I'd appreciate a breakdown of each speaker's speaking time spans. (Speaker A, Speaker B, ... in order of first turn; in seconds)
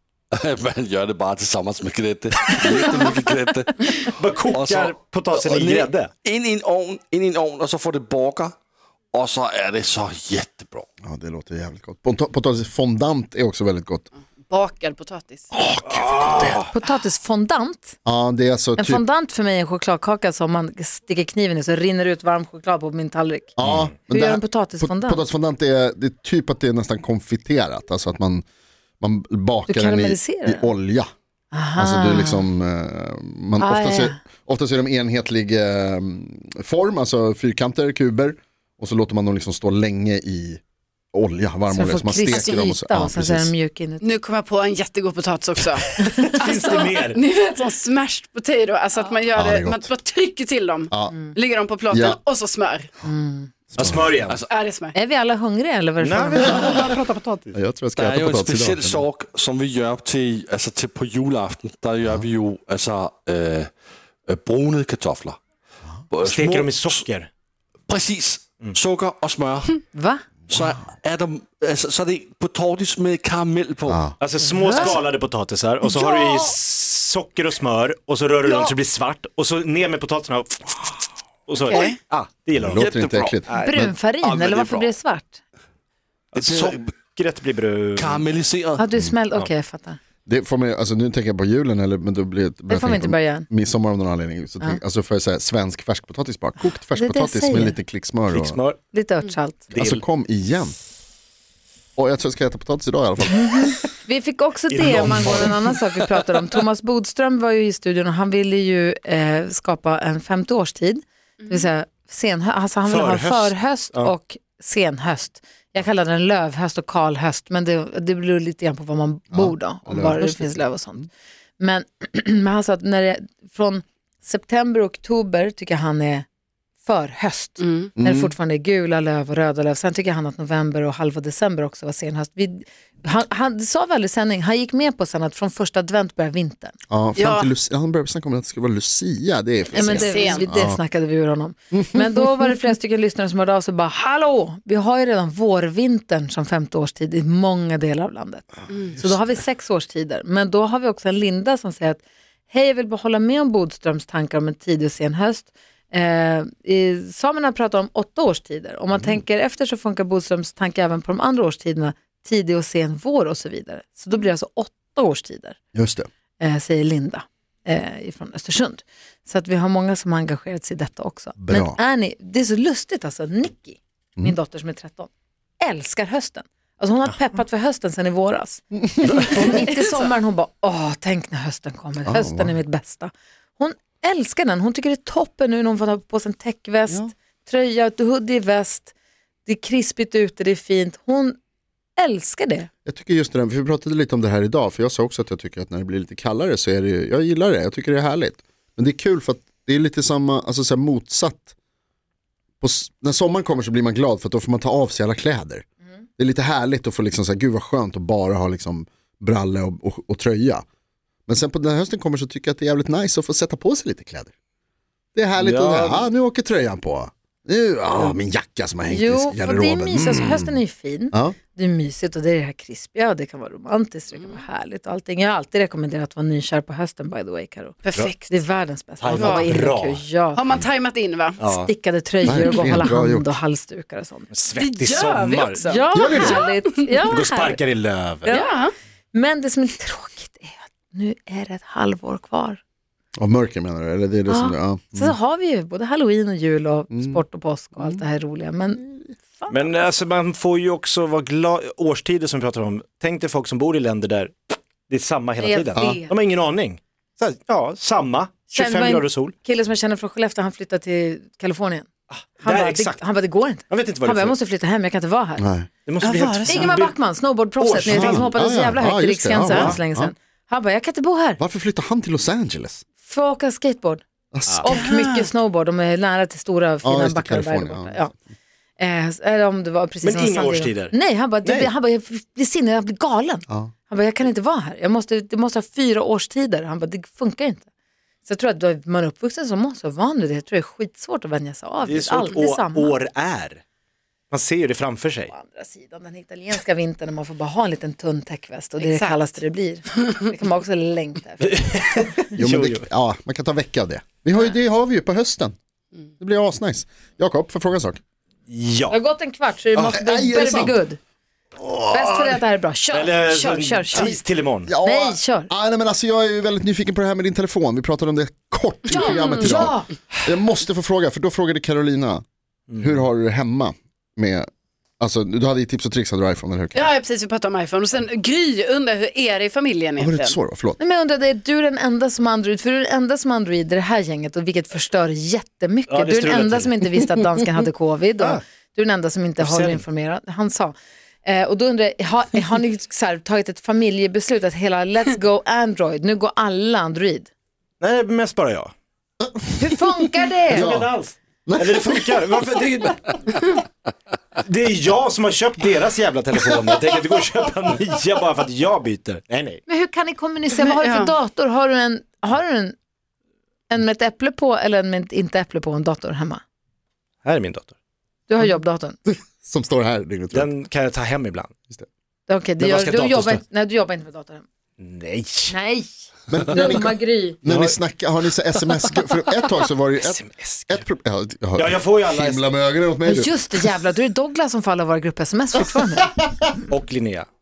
Speaker A: 0.3-8.5, 9.1-10.8, 58.0-63.7, 64.3-65.4, 66.1-67.0, 67.9-69.8, 70.5-74.0, 84.2-84.9, 86.3-86.8, 88.0-88.9
Speaker B: 4.1-6.1, 15.8-16.7, 23.6-23.9, 46.2-47.2, 53.8-54.4, 56.0-57.5, 66.2-67.3, 74.2-83.8, 86.3-88.3, 98.3-98.8, 99.7-100.0, 104.7-105.7, 112.8-114.1, 179.0-179.5, 215.4-216.1, 229.0-230.0, 231.4-231.7, 234.3-235.6, 237.1-238.4, 249.5-254.3, 254.9-259.3, 262.1-263.0, 263.7-264.4, 265.9-268.3, 280.0-280.9, 291.8-293.6, 294.3-295.3, 301.4-302.9, 308.5-309.0, 312.9-314.7, 322.7-323.1, 335.9-336.8, 339.4-339.8, 347.8-348.7, 350.5-353.6, 354.4-359.6, 367.2-367.7, 370.3-371.5, 372.6-373.4, 374.8-375.5, 377.4-377.8, 380.0-380.8, 381.6-382.4, 386.7-387.3
Speaker C: 11.0-14.1, 15.5-16.6, 18.0-19.0, 23.6-28.4, 29.0-31.1, 31.8-40.6, 41.1-43.5, 49.3-49.9, 50.9-51.2, 51.9-52.2, 53.7-54.1, 57.5-59.0, 73.9-74.1, 82.5-83.9, 90.2-98.6, 99.7-100.7, 102.0-103.7, 119.3-120.6, 128.0-128.3, 136.9-140.8, 141.7-142.2, 165.7-166.1, 171.4-171.8, 179.0-179.4, 182.0-182.6, 192.8-201.5, 202.6-205.6, 206.2-210.6, 211.3-214.3, 215.1-220.6, 232.2-233.4, 235.9-236.5, 243.2-245.1, 246.9-247.2, 265.4-265.7, 267.8-270.1, 271.4-272.8, 274.3-274.8, 276.8-278.1, 302.4-305.5, 306.2-308.0, 309.8-310.8, 311.6-312.4, 314.6-322.2, 322.8-324.5, 325.0-326.9, 330.0-330.8, 349.2-349.8, 350.5-350.9, 351.4-352.2, 369.1-370.5, 376.3-383.6
Speaker D: 14.4-15.5, 44.0-52.9, 54.5-54.9, 81.7-82.0, 127.6-127.9, 137.2-137.5, 139.7-140.4, 148.7-148.9, 179.5-179.8, 227.8-228.4, 229.1-229.5, 230.3-231.4, 234.5-236.4, 238.3-238.7, 266.0-266.7, 269.4-269.8, 274.7-275.3, 298.8-299.2, 318.9-319.5, 326.7-330.4, 360.5-361.1
Speaker E: 16.7-17.9, 18.8-23.5, 24.1-25.2, 29.7-30.7, 31.5-32.5, 33.6-34.2, 41.7-44.1, 46.0-46.3, 53.0-53.5, 54.9-56.9, 69.9-70.2, 74.5-75.0, 76.0-76.5, 78.4-78.7, 83.5-85.4, 88.8-90.0, 92.7-93.5, 96.9-97.8, 98.9-99.7, 103.3-121.1, 121.6-126.2, 126.8-136.7, 139.7-165.6, 166.4-188.9, 189.4-191.4, 191.9-192.7, 218.9-230.4, 231.6-234.3, 235.7-237.6, 238.2-238.5, 239.1-242.6, 244.3-249.8, 255.4-256.1, 258.5-261.9, 262.4-265.4, 266.4-271.4, 273.0-274.0, 274.6-278.1, 278.8-287.6, 288.2-292.9, 295.3-301.6, 308.9-311.0, 311.9-314.2, 314.8-315.5, 318.9-319.9, 330.8-347.3, 349.6-350.7, 359.7-362.8, 363.7-366.4, 368.3-369.0, 372.3-374.4, 375.5-375.9, 376.5-377.4, 383.0-386.1